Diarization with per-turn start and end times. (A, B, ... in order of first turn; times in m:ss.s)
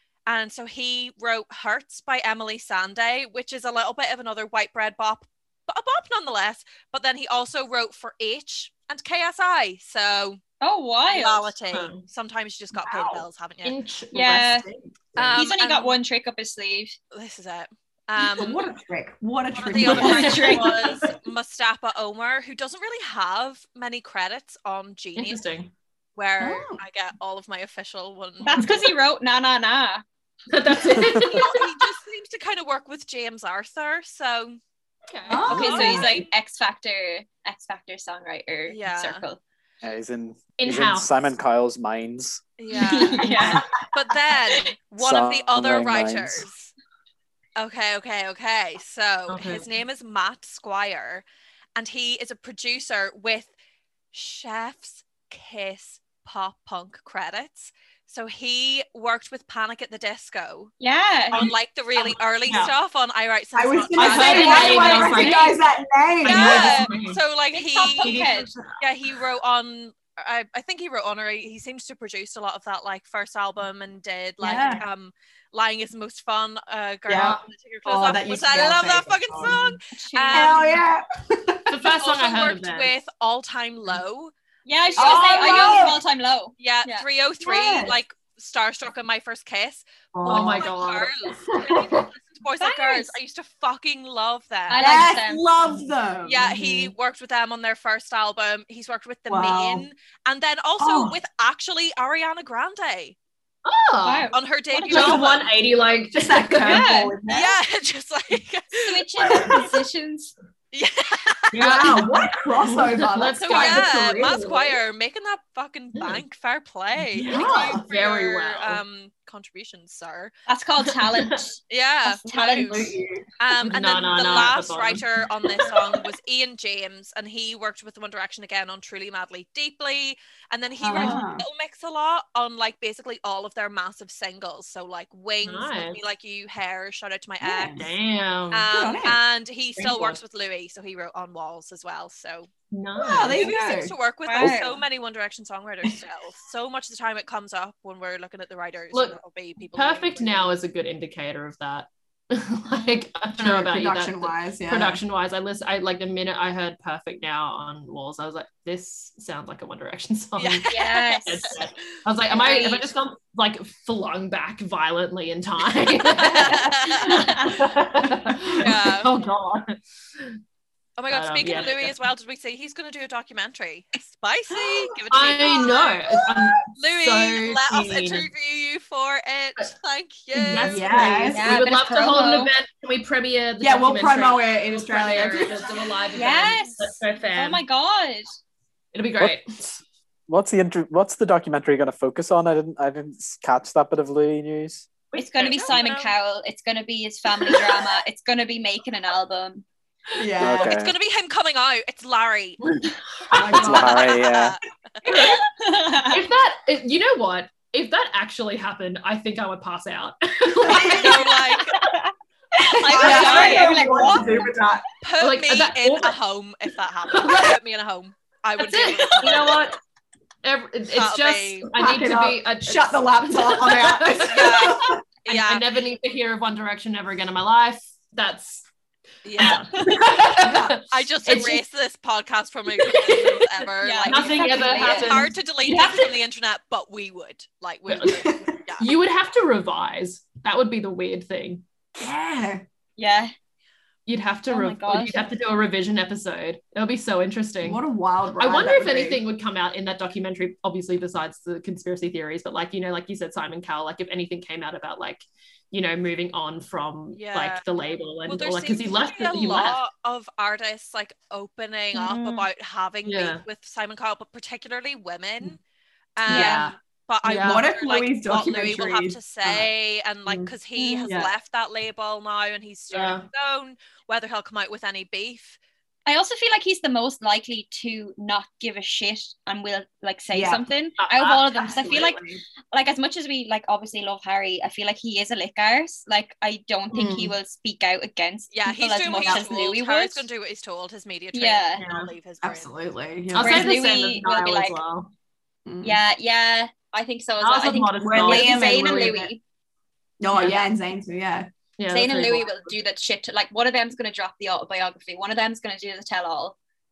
0:00.3-0:10.4 A
0:10.6-0:11.5 B
0:11.1-0:13.8 A
0:11.7-0:12.0 C
0:12.8-0:13.2 D
0:13.6-0:14.9 C
0:14.1-0:14.7 B
0:15.2-0:16.0 A
0:15.4-0:17.0 B
0:17.1-0:18.7 A
0:18.2-0:20.7 D
0:19.6-0:25.4 A
0:19.8-0:20.8 B
0:19.8-0:21.1 C
0:25.2-0:25.7 C
0:26.2-0:28.7 A
0:26.4-0:26.8 D
0:28.4-0:30.0 B
0:30.5-0:31.7 C
0:31.0-0:31.2 E
0:31.2-0:34.6 A
0:35.1-0:35.5 C
0:35.3-0:36.2 D
0:35.5-0:36.3 A
0:35.5-0:39.4 B
0:38.7-0:39.2 A
0:39.8-0:42.5 E
0:40.6-0:41.3 C
0:42.6-0:43.4 A
0:42.7-0:43.6 B
0:43.9-0:46.7 A
0:45.0-0:46.5 E
0:47.6-0:51.2 A
0:49.3-0:49.7 C
0:51.8-0:53.5 A
0:54.1-1:00.7 A
1:00.8-1:01.5 B
1:01.3-1:05.4 A
1:01.3-1:02.7 C
1:03.5-1:06.9 D
1:04.0-1:05.6 C
1:04.0-1:05.5 B
1:06.2-1:07.2 C
1:06.2-1:08.2 A
1:07.5-1:08.5 B
1:08.0-1:08.6 D
1:08.8-1:20.6 A
1:14.4-1:14.9 D
1:17.1-1:19.7 D
1:17.1-1:17.4 C
1:19.9-1:20.8 B
1:20.3-1:21.8 D
1:21.7-1:22.9 C
1:22.0-1:24.3 A
1:24.7-1:27.1 B
1:24.9-1:26.0 A
1:25.0-1:26.0 D
1:26.6-1:34.9 A
1:27.4-1:28.0 D
1:30.1-1:30.7 D
1:30.2-1:32.1 C
1:32.6-1:33.1 B
1:34.7-1:35.5 B
1:34.8-1:36.9 D
1:36.2-1:43.2 A
1:39.3-1:39.9 D
1:40.8-1:41.1 C
1:43.6-1:44.3 C
1:44.0-1:45.4 B
1:44.3-1:45.5 A
1:44.9-1:46.9 C
1:46.2-1:47.6 D
1:46.6-1:47.2 B
1:47.3-1:49.6 A
1:48.8-1:50.3 B
1:49.2-1:49.7 D
1:50.7-1:51.9 A
1:51.5-1:54.8 C
1:51.6-1:54.6 D
1:53.4-2:00.3 A
1:56.0-1:56.2 C
1:57.1-1:57.8 D
1:57.3-1:58.8 C
2:00.5-2:02.9 B
2:01.0-2:01.3 C
2:01.7-2:17.9 A
2:02.5-2:03.3 D
2:03.6-2:05.1 C
2:10.8-2:11.5 D
2:10.9-2:11.2 C
2:15.4-2:16.0 C
2:17.4-2:17.9 D
2:17.7-2:18.7 C
2:18.5-2:22.5 A
2:18.7-2:19.2 D
2:19.8-2:20.2 D
2:22.7-2:23.5 C
2:23.0-2:24.6 D
2:23.3-2:30.5 A
2:24.2-2:24.8 B
2:28.9-2:29.2 C
2:29.7-2:40.7 C
2:33.4-2:35.0 D
2:40.4-2:41.3 A
2:40.7-2:41.6 B
2:41.2-2:50.3 C
2:42.3-2:42.9 B
2:46.1-2:47.4 A
2:48.6-2:49.1 A
2:51.0-2:56.0 A
2:51.1-2:52.0 C
2:55.1-2:58.3 C
2:56.2-2:56.5 D
2:56.7-3:01.3 A
3:00.4-3:07.6 C
3:00.6-3:01.7 D
3:01.3-3:02.5 B
3:03.6-3:05.8 D
3:06.1-3:08.3 B
3:08.9-3:09.5 C
3:09.2-3:14.9 E
3:15.2-3:19.6 B
3:15.4-3:16.1 A
3:20.2-3:20.8 D
3:20.4-3:20.9 E
3:20.5-3:22.6 A
3:22.8-3:24.0 C
3:23.3-3:24.2 D
3:23.5-3:24.6 E
3:23.7-3:24.6 A
3:25.1-3:25.3 D
3:25.1-3:25.4 C
3:25.1-3:26.2 B
3:26.1-3:31.4 C
3:30.6-3:31.2 D
3:30.8-3:31.8 A
3:31.7-3:34.6 B
3:32.7-3:33.9 A
3:32.9-3:33.7 C
3:32.9-3:34.8 D
3:35.0-3:39.6 A
3:35.2-3:36.2 C
3:37.1-3:37.6 C
3:38.6-3:39.8 C
3:40.4-3:48.7 C
3:40.9-3:41.7 A
3:41.7-3:45.0 D
3:44.3-3:45.6 A
3:49.2-3:49.6 A
3:49.4-3:51.6 C
3:49.9-3:50.8 D
3:50.8-3:58.9 A
3:52.8-3:53.4 C
3:53.8-3:55.2 B
3:54.0-3:56.1 C
3:57.9-3:58.2 C
3:58.0-3:58.5 D
3:58.8-4:01.6 C
4:02.0-4:02.6 D
4:03.0-4:03.3 B
4:04.1-4:07.8 C
4:04.5-4:05.3 B
4:07.6-4:09.2 D
4:08.4-4:19.8 C
4:17.1-4:17.6 A
4:18.3-4:25.6 A
4:23.0-4:23.4 C
4:26.2-4:35.6 A
4:26.3-4:26.7 D
4:26.3-4:27.7 C
4:27.3-4:29.7 D
4:30.3-4:30.5 D
4:30.8-4:31.1 B
4:31.1-4:31.3 D
4:32.9-4:33.3 C
4:36.1-4:42.2 B
4:40.3-4:40.6 D
4:41.0-4:41.6 C
4:41.5-4:42.4 D
4:42.7-4:50.3 B
4:46.9-4:47.3 C
4:48.5-4:52.7 A
4:49.2-4:49.5 D
4:51.3-4:51.8 B
4:51.8-4:52.1 C
4:52.4-4:53.8 D
4:53.3-4:55.1 C
4:53.4-4:54.8 B
4:55.7-4:56.0 D
4:55.8-4:59.4 B
4:57.4-4:59.2 C
4:58.0-4:59.3 D
5:00.2-5:01.5 D
5:00.3-5:00.6 C
5:01.8-5:02.8 C
5:01.9-5:06.6 B